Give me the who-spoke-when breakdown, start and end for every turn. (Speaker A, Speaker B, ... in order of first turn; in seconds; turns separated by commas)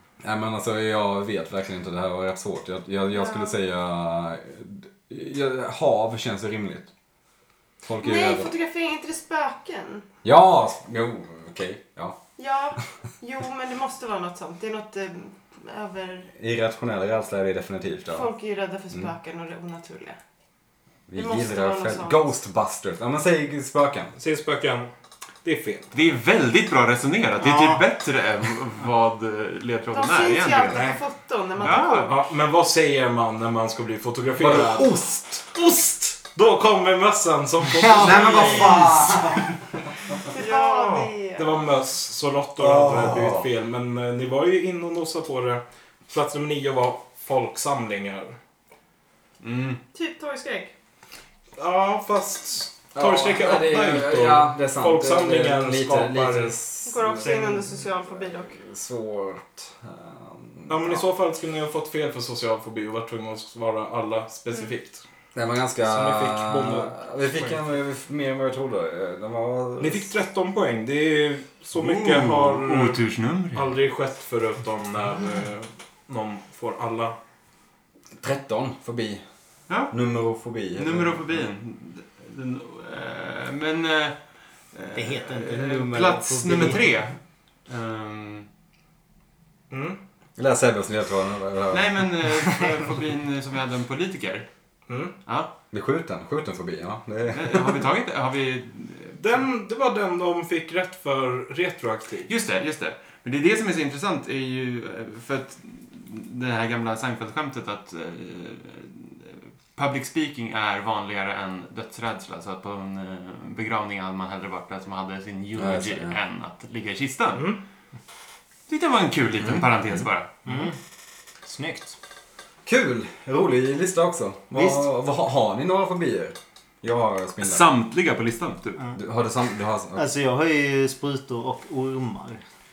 Speaker A: 0.2-6.9, Speaker B: 3.1-3.6, Speaker A: 7.8-8.5, Speaker B: 8.0-10.1, Speaker A: 10.2-12.2, Speaker B: 12.4-16.3, Speaker A: 16.4-18.3, Speaker B: 18.1-20.2, Speaker A: 21.1-24.1, Speaker B: 21.1-22.3, Speaker C: 24.2-24.9, Speaker C: 25.4-25.9, Speaker D: 25.9-30.9, Speaker E: 27.4-27.8, Speaker B: 29.9-32.2, Speaker C: 30.7-31.0, Speaker D: 31.6-32.1, Speaker C: 32.0-34.9, Speaker A: 34.4-35.4, Speaker C: 35.5-39.1, Speaker E: 37.9-38.7, Speaker A: 37.9-39.5, Speaker B: 40.3-41.6, Speaker D: 40.3-41.1, Speaker C: 41.4-48.4, Speaker A: 42.6-43.5, Speaker D: 49.4-49.8, Speaker B: 49.9-50.7, Speaker C: 51.6-56.6, Speaker A: 52.9-61.0, Speaker B: 56.9-58.6, Speaker C: 57.2-57.7, Speaker C: 60.7-65.0, Speaker A: 65.3-70.1, Speaker C: 65.8-67.6, Speaker C: 69.8-73.0, Speaker D: 71.7-73.8, Speaker C: 73.5-77.2, Speaker A: 78.2-79.2, Speaker A: 79.9-81.2, Speaker D: 80.7-88.5, Speaker E: 84.9-86.9, Speaker C: 89.7-90.0, Speaker A: 90.4-92.0, Speaker D: 91.7-94.5, Speaker C: 94.9-95.1, Speaker D: 95.3-95.5, Speaker A: 95.7-97.9, Speaker D: 97.3-99.2, Speaker C: 99.2-102.3, Speaker D: 102.3-117.6, Speaker A: 115.6-116.2, Speaker C: 117.3-117.6, Speaker D: 118.7-120.4, Speaker E: 120.5-120.8, Speaker E: 121.4-122.0, Speaker A: 122.7-127.7, Speaker E: 124.5-124.9, Speaker D: 127.4-128.8, Speaker A: 129.0-130.0, Speaker E: 129.9-132.4